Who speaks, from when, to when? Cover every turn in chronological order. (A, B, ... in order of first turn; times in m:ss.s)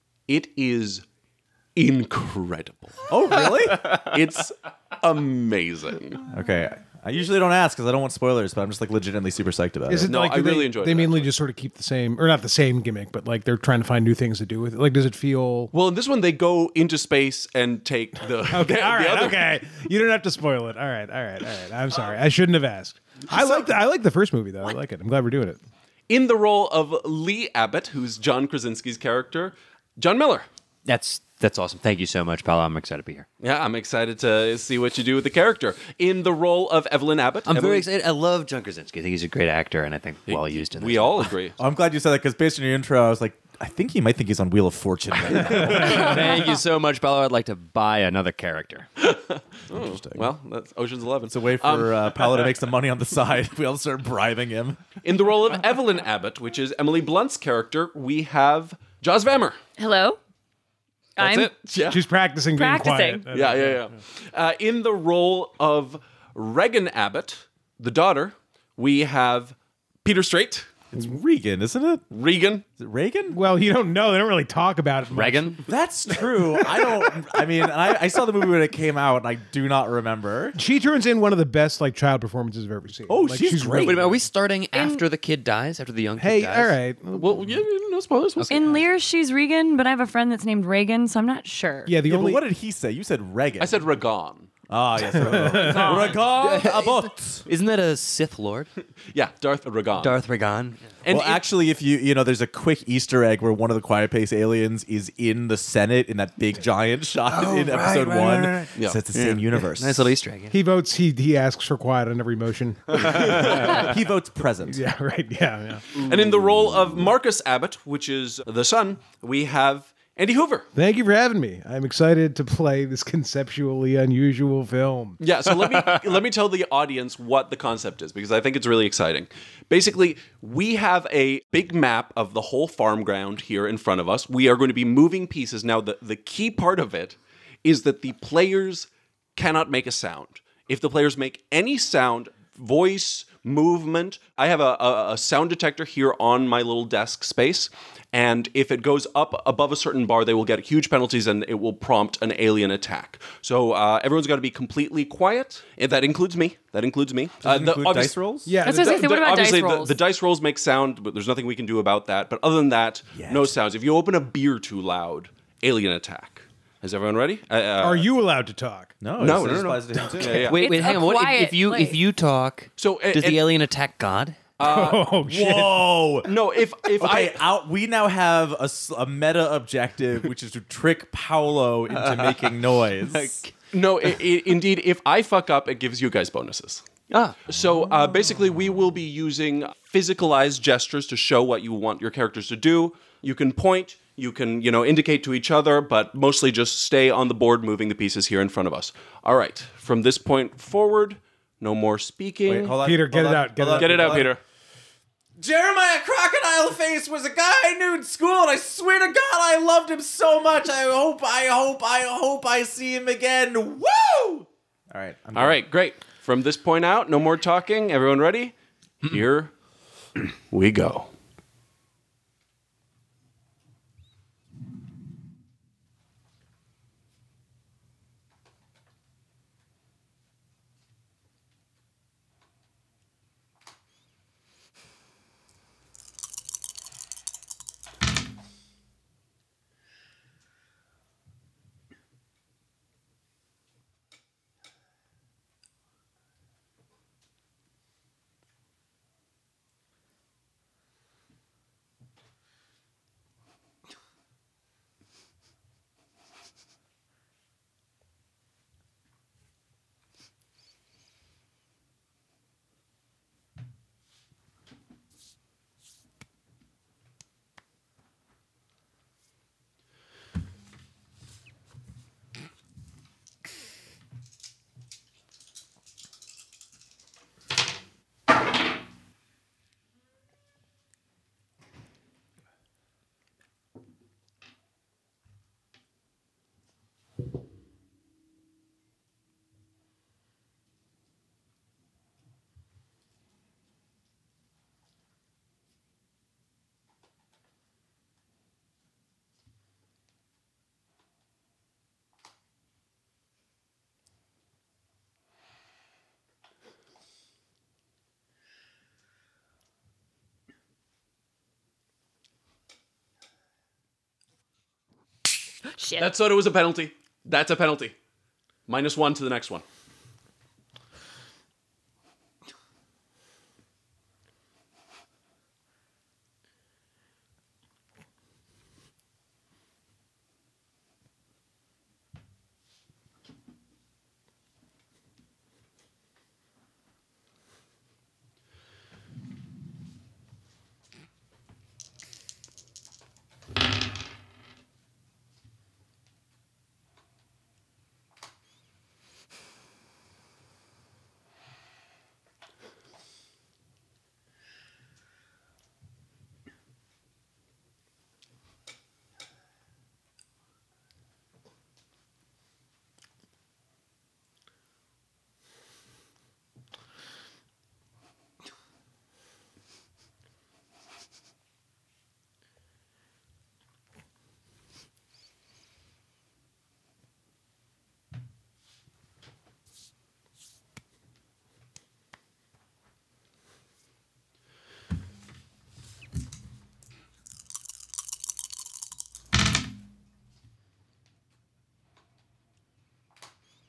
0:00.3-0:01.0 A
0:01.8-0:03.0 A
0:03.1-0:04.0 B
0:03.8-0:06.2 A
0:06.3-0:10.1 B
0:09.9-0:15.7 C
0:10.1-0:11.3 A
0:15.7-0:19.5 A
0:18.5-0:25.6 C
0:23.4-0:23.6 A
0:26.1-0:30.5 A
0:30.9-0:33.3 D
0:33.4-0:37.9 A
0:37.5-0:41.3 D
0:40.3-0:41.6 A
0:41.6-0:46.5 B
0:45.6-0:48.9 D
0:49.0-0:52.6 A
0:49.7-0:50.3 B
0:51.3-0:54.9 B
0:55.0-0:59.6 A
0:59.8-1:00.2 E
1:01.2-1:01.5 E
1:01.2-1:02.0 A
1:01.9-1:03.9 C
1:02.6-1:03.2 E
1:03.3-1:10.8 A
1:10.9-1:12.0 B
1:12.1-1:12.6 A
1:12.8-1:13.4 B
1:13.3-1:15.5 C
1:15.1-1:15.6 D
1:15.7-1:20.6 B
1:20.6-1:24.0 C
1:23.1-1:24.2 B
1:23.8-1:26.8 D
1:24.7-1:25.1 E
1:26.2-1:27.5 C
1:27.1-1:28.8 A
1:28.4-1:28.8 D
1:28.5-1:32.0 E
1:31.9-1:32.4 C
1:32.1-1:33.9 B
1:33.6-1:34.5 A
1:34.7-1:37.5 B
1:35.1-1:35.9 C
1:35.3-1:36.3 A
1:35.6-1:36.2 E
1:35.8-1:38.7 D
1:39.1-1:40.2 A
1:40.0-1:41.0 D
1:41.0-1:41.4 A
1:41.1-1:50.1 B
1:47.3-1:50.6 D
1:48.8-1:49.0 A
1:50.5-1:54.0 C
1:53.3-1:54.8 B
1:54.7-1:55.9 C
1:55.9-2:00.7 A
2:00.8-2:05.2 C
2:05.2-2:48.1 A
2:37.4-2:38.6 B
2:38.5-2:39.1 C
2:38.6-2:40.0 E
2:43.1-2:43.6 B
2:47.8-2:48.9 C
2:49.0-2:50.5 B
2:49.2-2:50.6 A
2:50.3-2:54.4 D
2:50.6-2:52.0 E
2:52.8-2:53.5 A
2:54.6-2:55.7 A
2:54.6-2:55.8 C
2:55.3-2:56.4 B
2:56.2-2:57.5 A
2:57.0-3:03.4 B
3:02.0-3:03.5 D
3:03.7-3:06.9 A
3:07.1-3:07.4 D
3:07.4-3:22.7 A
3:22.5-3:24.3 B
3:22.8-3:24.3 C
3:23.8-3:24.4 A
3:25.4-3:35.6 B
3:35.4-3:39.5 A
3:40.3-3:41.1 A
5:15.8-5:16.1 E
5:16.0-5:18.0 A
5:18.7-5:19.6 A